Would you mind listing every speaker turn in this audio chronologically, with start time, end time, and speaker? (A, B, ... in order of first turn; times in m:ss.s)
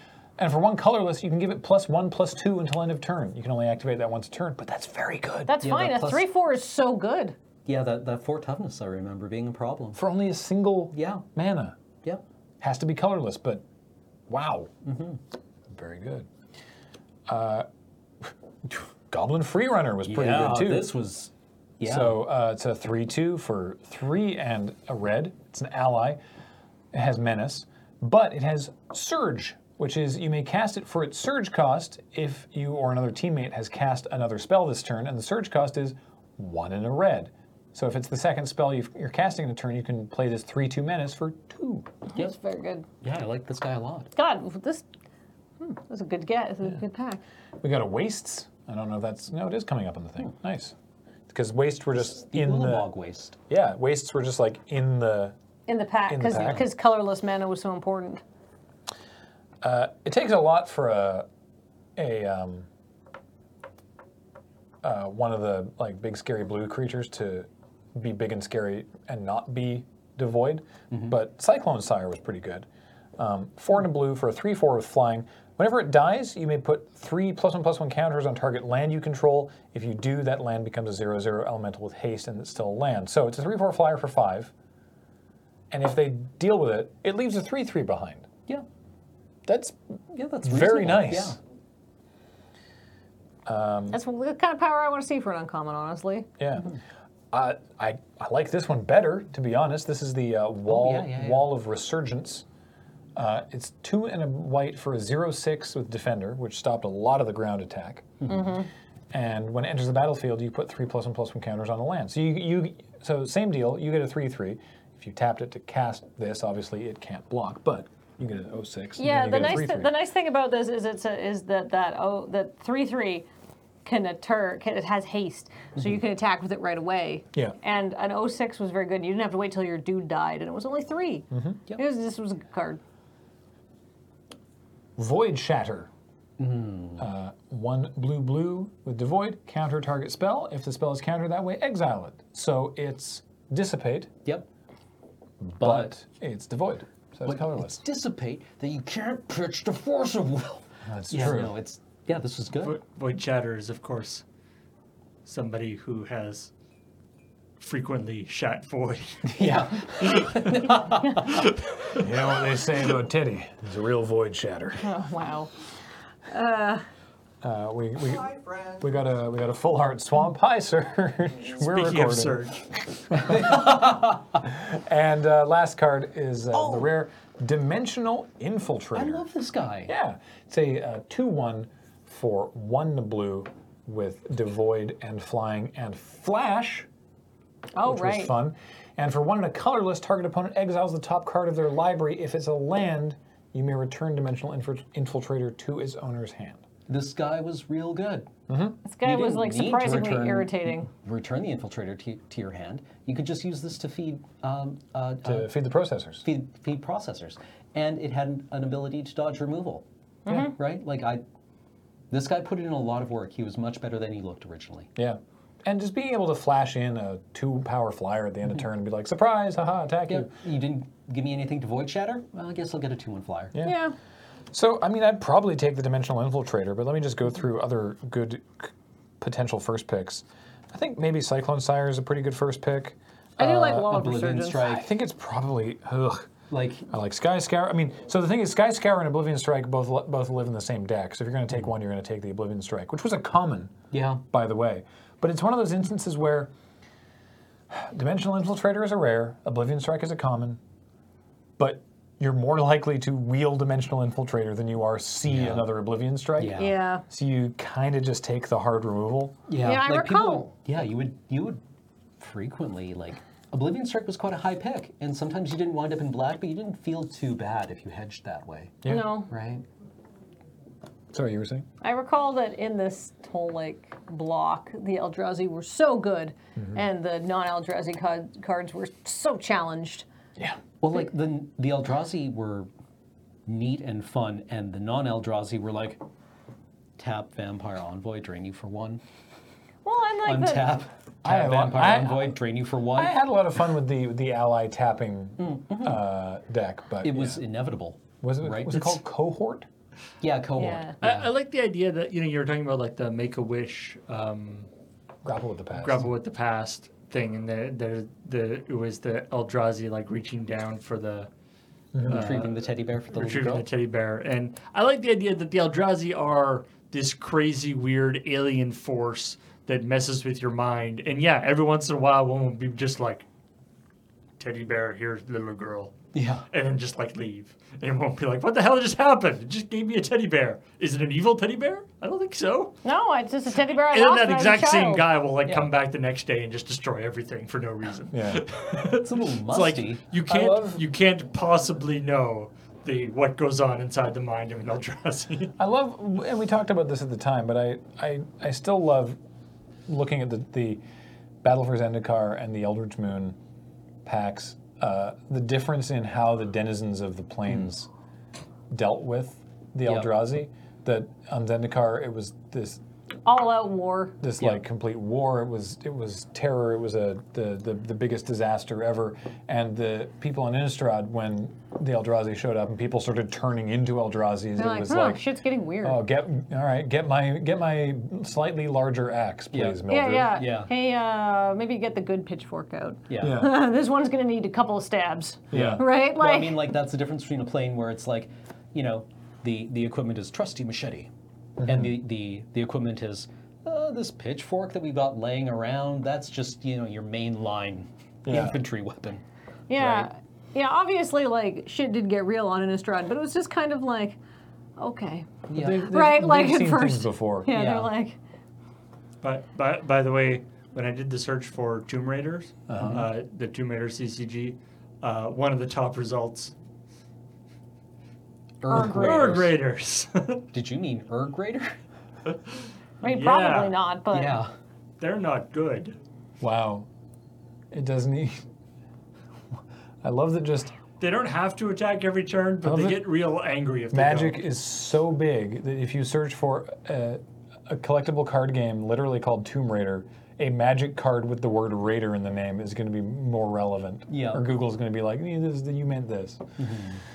0:00.4-0:05.6 A
0:05.5-0:07.4 B
0:05.6-0:06.3 C
0:07.6-0:10.0 C
0:09.9-0:11.8 A
0:10.9-0:11.2 C
0:12.6-0:13.6 A
0:14.3-0:14.7 A
0:14.8-0:15.2 C
0:15.7-0:16.3 A
0:17.3-0:17.6 A
0:18.2-0:20.9 A
0:20.0-0:22.2 C
0:21.8-0:26.2 A
0:26.9-0:41.9 A
0:42.1-0:42.8 B
0:43.0-0:44.1 C
0:44.2-0:44.8 B
0:45.6-0:47.2 B
0:47.6-0:50.7 A
0:51.3-0:52.9 A
0:52.1-0:53.4 C
0:53.5-0:55.4 A
0:55.7-0:58.2 B
0:56.1-0:56.7 A
0:59.6-1:01.3 A
1:02.0-1:02.7 A
1:04.8-1:24.5 A
1:25.7-1:28.3 A
1:29.4-1:29.8 A
1:30.1-1:31.4 C
1:30.4-1:31.4 A
1:33.4-1:34.0 A
1:33.9-1:36.3 B
1:36.4-1:36.7 A
1:37.3-1:42.4 A
1:40.7-1:41.5 C
1:43.2-1:48.3 A
1:48.3-1:48.7 B
1:49.1-1:59.9 A
1:59.0-2:03.3 B
2:03.8-2:12.8 B
2:11.3-2:11.6 A
2:15.0-2:15.9 A
2:16.4-2:17.0 C
2:17.0-2:24.2 A
2:25.4-2:27.8 A
2:25.6-2:25.9 C
2:27.2-2:32.8 C
2:30.8-2:31.5 A
2:32.6-2:34.2 D
2:35.2-2:36.5 D
2:37.6-2:40.7 D
2:39.2-2:41.5 C
2:41.2-2:42.0 D
2:41.9-2:44.9 A
2:44.8-2:45.5 B
2:46.3-2:46.8 B
2:47.4-2:52.4 A
2:51.7-2:52.6 D
2:53.1-2:53.8 A
2:53.1-2:54.4 C
2:54.4-2:59.2 A
2:58.9-2:59.9 C
2:59.9-3:06.9 A
3:07.7-3:08.3 B
3:07.8-3:16.6 A
3:16.9-3:18.3 C
3:18.5-3:18.8 A
3:18.8-3:20.9 B
3:19.0-3:25.5 C
3:25.2-3:26.2 A
3:26.2-3:31.2 C
3:30.2-3:30.6 B
3:32.1-3:34.9 C
3:35.0-3:40.3 A
3:40.1-3:43.5 C
3:43.6-3:43.9 B
3:44.5-3:54.0 A
3:53.4-3:54.6 B
3:53.6-3:54.9 C
3:54.6-3:56.3 A
3:56.5-3:56.9 C
3:56.9-4:03.8 A
4:03.9-4:04.2 C
4:04.3-4:06.5 A
4:07.7-4:10.6 A
4:11.6-4:19.4 A
4:15.2-4:15.7 C
4:16.4-4:16.8 C
4:16.6-4:17.0 B
4:19.5-4:21.6 C
4:19.6-4:20.5 B
4:22.2-4:29.6 C
4:28.8-4:29.2 A
4:28.8-4:29.3 B
4:31.1-4:31.7 A
4:31.8-4:40.0 B
4:40.8-4:42.7 C
4:43.4-4:46.0 C
4:47.0-4:49.0 C
4:49.8-4:50.8 B
4:50.2-4:53.2 C
4:51.2-4:52.4 A
4:52.9-4:57.4 A
4:55.4-4:56.0 C
4:57.0-4:59.0 C
4:58.2-4:59.7 A
5:00.2-5:01.3 C
5:00.6-5:01.0 B
5:01.0-5:04.7 D
5:05.2-5:06.1 A
5:05.8-5:11.3 D
5:11.9-5:12.3 A
5:12.0-5:23.3 D
5:12.1-5:13.6 C
5:24.4-5:25.9 D
5:26.1-5:26.4 C
5:26.5-5:32.8 D
5:32.8-5:35.1 B
5:33.7-5:45.5 D
5:35.4-5:35.7 C
5:38.1-5:38.4 A
5:38.8-5:40.0 C
5:40.3-5:40.8 A
5:45.6-5:49.2 A
5:49.8-5:50.8 A
5:51.4-5:53.4 A
5:54.0-5:57.9 A
5:58.7-6:02.8 A
6:03.2-6:04.2 B
6:04.2-6:15.2 A
6:14.6-6:16.0 B
6:15.8-6:20.4 A
6:19.5-6:20.7 C
6:19.9-6:26.6 B
6:23.1-6:23.4 C
6:23.2-6:23.6 A
6:25.5-6:25.8 A
6:25.5-6:31.1 C
6:31.6-6:32.0 A
6:31.6-6:39.2 C
6:38.2-6:38.6 A
6:39.7-6:44.2 B
6:39.7-6:40.1 C
6:44.8-6:48.2 B
6:45.5-6:45.9 C
6:45.5-6:47.5 A
6:47.5-6:47.9 C
6:49.2-6:56.5 D
6:52.7-6:53.1 C
6:58.6-6:59.6 C
6:58.7-6:59.4 B
6:58.7-7:00.4 D
7:00.5-7:01.7 C
7:02.3-7:03.8 D
7:03.0-7:04.4 B
7:04.1-7:04.5 C
7:05.0-7:06.0 D
7:06.4-7:06.9 A
7:07.7-7:08.4 A
7:10.0-7:10.7 A
7:11.0-7:14.4 D
7:12.6-7:13.0 A
7:13.9-7:26.6 A
7:24.1-7:24.4 C
7:26.6-7:27.0 C